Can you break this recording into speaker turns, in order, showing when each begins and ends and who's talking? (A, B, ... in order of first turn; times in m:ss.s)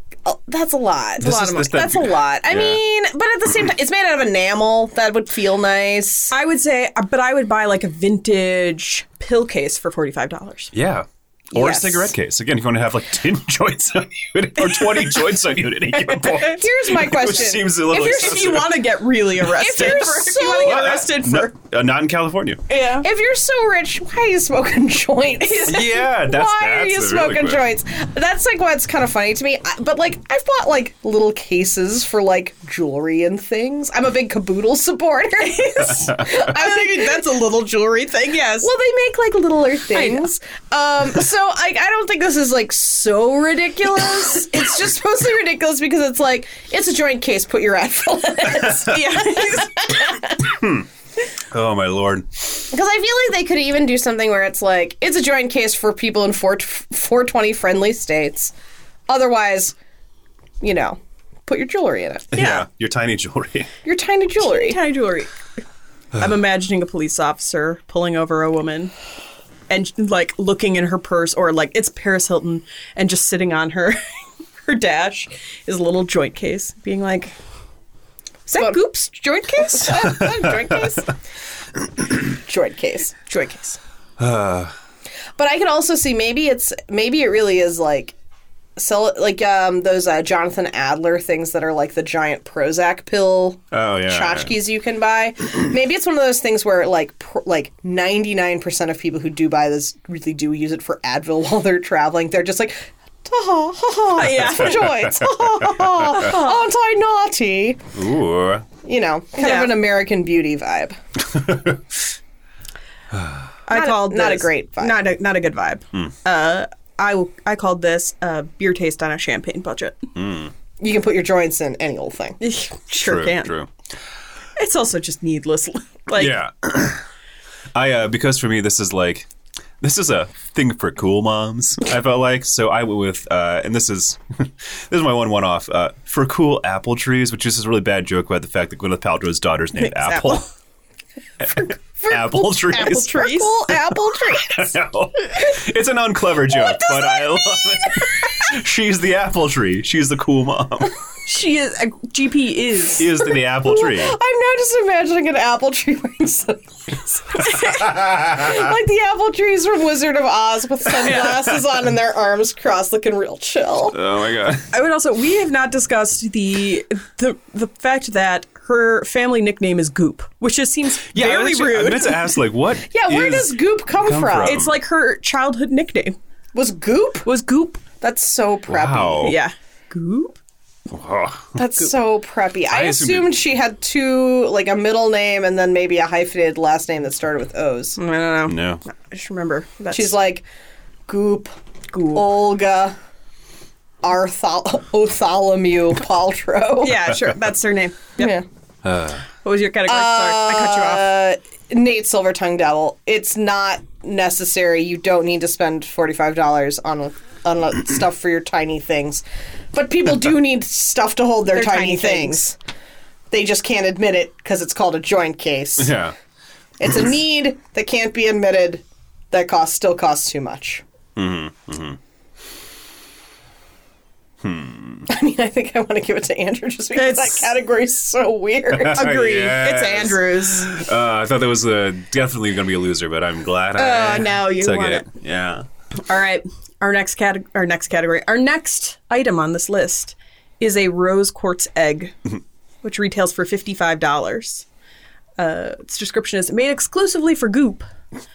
0:00.2-0:06.3 A
0:01.2-0:02.8 B
0:06.3-0:10.7 C
0:10.7-0:18.8 B
0:11.6-0:12.1 A
0:14.8-0:15.0 C
0:16.2-0:16.6 C
0:16.2-0:18.7 A
0:17.9-0:21.5 C
0:19.4-0:21.0 A
0:20.6-0:22.6 B
0:22.7-0:23.0 C
0:23.0-0:37.2 A
0:25.4-0:25.8 C
0:25.7-0:27.6 B
0:35.6-0:38.7 C
0:38.6-0:50.6 A
0:39.9-0:40.2 C
0:48.8-0:49.7 C
0:50.5-0:50.8 B
0:51.4-0:52.4 B
0:52.7-0:58.5 A
0:59.1-0:59.7 A
1:00.6-1:02.3 A
1:02.3-1:03.7 B
1:02.3-1:02.6 C
1:03.8-1:04.8 A
1:04.4-1:05.3 C
1:06.1-1:08.9 C
1:09.7-1:14.0 C
1:14.6-1:17.3 C
1:18.5-1:20.1 C
1:18.5-1:21.1 A
1:22.2-1:23.2 A
1:23.2-1:23.8 C
1:24.2-1:24.7 B
1:25.4-1:28.1 A
1:28.8-1:47.8 A
1:33.7-1:34.5 B
1:44.1-1:44.9 C
1:44.8-1:46.1 B
1:46.1-1:46.6 C
1:47.9-1:48.6 B
1:48.8-1:51.0 A
1:49.4-1:49.7 C
1:51.3-1:51.8 B
1:53.1-1:53.5 B
1:53.7-2:00.1 C
1:53.7-1:55.0 A
2:00.1-2:00.5 B
2:00.8-2:02.4 A
2:02.4-2:03.5 C
2:03.0-2:03.7 B
2:04.6-2:06.4 C
2:06.1-2:07.0 B
2:07.7-2:09.3 B
2:09.8-2:20.4 B
2:19.8-2:20.4 C
2:21.5-2:23.2 B
2:22.0-2:24.7 A
2:22.7-2:23.5 C
2:24.3-2:30.9 B
2:26.5-2:28.2 A
2:31.2-2:33.1 C
2:33.0-2:34.2 B
2:33.2-2:44.0 A
2:38.1-2:38.5 B
2:41.0-2:41.4 C
2:43.9-2:44.7 B
2:44.7-2:52.2 C
2:51.1-2:54.7 B
2:52.9-2:54.6 A
2:54.4-2:56.2 C
2:56.5-2:57.3 A
2:57.2-2:57.8 C
2:58.0-2:59.3 A
2:58.7-2:59.4 B
2:59.2-3:00.4 C
3:00.9-3:01.5 B
3:01.6-3:08.0 A
3:02.7-3:03.4 B
3:08.0-3:10.1 C
3:08.5-3:08.8 B
3:09.9-3:10.4 A
3:11.1-3:11.5 A
3:11.9-3:12.3 C
3:12.1-3:12.9 A
3:14.0-3:17.1 A
3:16.8-3:18.3 C
3:18.2-3:18.4 A
3:18.8-3:19.2 B
3:19.4-3:21.1 C
3:19.9-3:32.6 A
3:31.5-3:32.4 C
3:33.3-3:35.9 A
3:35.8-3:36.1 B
3:36.8-3:40.8 A
3:41.2-3:42.0 B
3:44.4-3:45.0 B
3:45.1-3:49.1 A
3:46.9-3:47.5 C
3:48.7-3:55.6 B
3:48.9-3:50.8 C
3:53.8-3:55.0 A
3:54.0-3:55.0 C
3:56.0-4:02.2 C
4:02.8-4:04.6 C
4:05.4-4:07.8 C